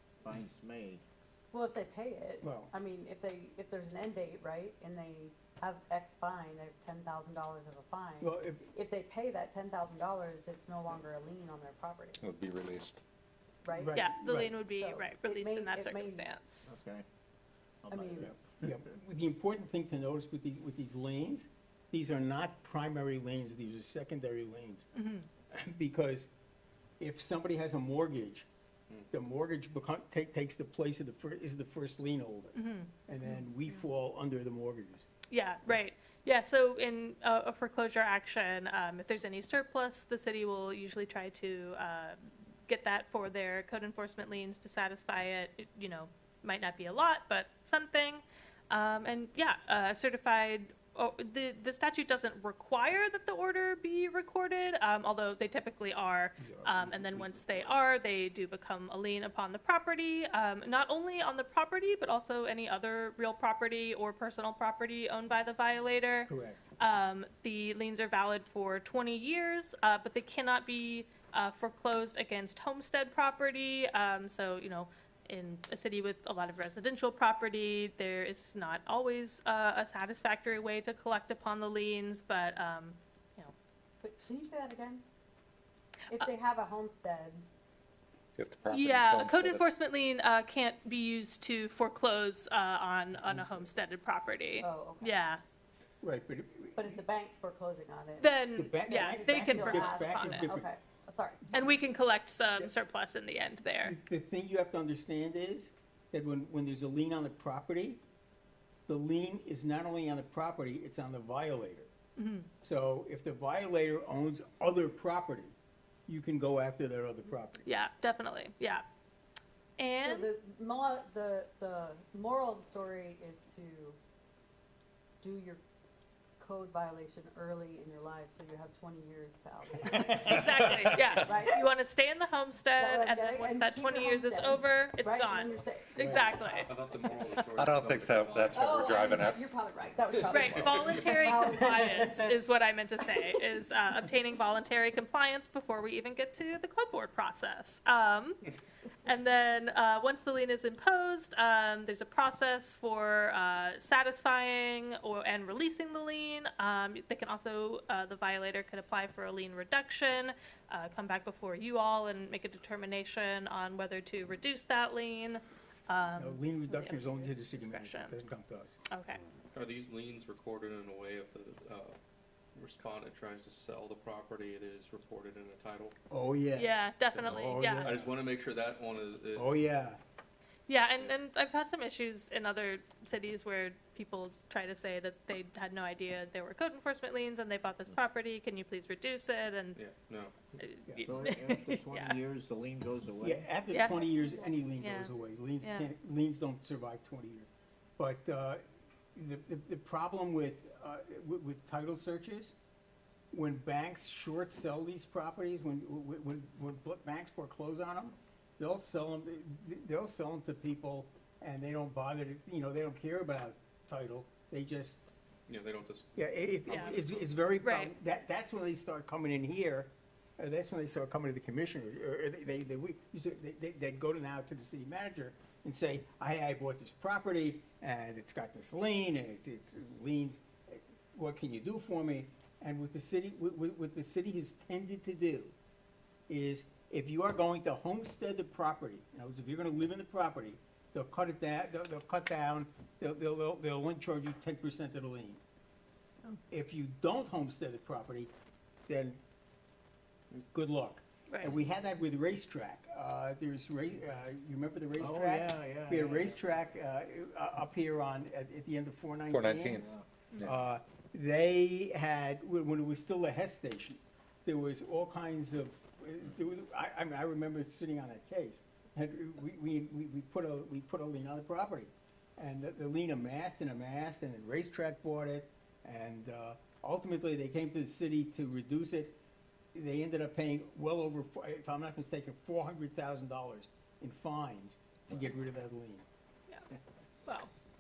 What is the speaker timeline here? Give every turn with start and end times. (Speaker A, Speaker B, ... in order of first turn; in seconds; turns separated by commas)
Speaker A: 0.2-1.0, Speaker B: 1.5-12.2, Speaker C: 2.4-2.7, Speaker C: 8.2-8.7, Speaker D: 12.2-13.0, Speaker B: 13.6-16.3, Speaker C: 13.7-14.5, Speaker E: 13.9-16.8, Speaker A: 16.7-17.0, Speaker A: 17.8-18.7, Speaker B: 17.9-18.3, Speaker C: 18.2-24.9, Speaker E: 24.9-25.3, Speaker C: 25.5-26.3, Speaker C: 27.0-28.5, Speaker C: 29.1-32.5, Speaker E: 32.5-32.9, Speaker C: 33.1-35.1, Speaker E: 35.3-83.5, Speaker C: 56.4-57.8, Speaker C: 66.3-66.6, Speaker B: 84.0-85.0, Speaker B: 86.1-87.4, Speaker D: 88.4-89.6, Speaker E: 88.7-95.4, Speaker C: 93.2-93.7, Speaker B: 94.6-95.2, Speaker C: 96.0-97.0, Speaker B: 96.8-98.3, Speaker E: 98.2-100.5, Speaker C: 98.6-100.7, Speaker B: 99.0-101.5, Speaker C: 101.5-101.8, Speaker E: 101.5-104.0, Speaker C: 103.8-108.0, Speaker C: 108.9-111.9, Speaker E: 112.2-112.5, Speaker C: 112.6-117.7, Speaker E: 117.6-118.8, Speaker E: 119.8-120.3, Speaker B: 119.9-124.0, Speaker B: 125.2-125.6, Speaker B: 126.4-130.4, Speaker C: 129.8-130.4, Speaker E: 130.2-136.7, Speaker D: 130.3-130.9, Speaker B: 131.2-131.6, Speaker B: 132.8-136.7, Speaker F: 136.4-139.2, Speaker D: 137.5-139.4, Speaker B: 138.5-142.2, Speaker E: 140.3-148.4, Speaker F: 140.4-141.3, Speaker C: 141.8-142.0, Speaker E: 149.1-168.2, Speaker C: 166.2-168.8, Speaker E: 168.9-169.2, Speaker F: 169.5-172.0, Speaker F: 172.6-176.0, Speaker C: 176.1-178.1, Speaker E: 176.6-177.9, Speaker F: 177.1-179.5, Speaker C: 179.3-180.0, Speaker E: 180.7-189.8, Speaker F: 189.8-190.6, Speaker E: 190.6-192.2, Speaker C: 190.9-191.2, Speaker A: 191.0-193.5, Speaker C: 193.2-198.6, Speaker E: 193.7-194.0, Speaker B: 193.9-194.5, Speaker E: 194.8-195.9, Speaker C: 199.1-202.5, Speaker C: 203.3-215.0, Speaker F: 215.5-217.3, Speaker C: 216.2-235.5, Speaker E: 216.7-217.0, Speaker E: 217.6-217.9, Speaker C: 236.3-245.4, Speaker C: 246.5-248.3, Speaker C: 248.9-249.2, Speaker C: 250.5-259.9, Speaker E: 251.3-251.6, Speaker A: 255.0-256.4, Speaker D: 259.3-259.9, Speaker A: 259.7-260.1, Speaker C: 260.4-279.2, Speaker C: 279.7-286.1, Speaker E: 287.2-287.5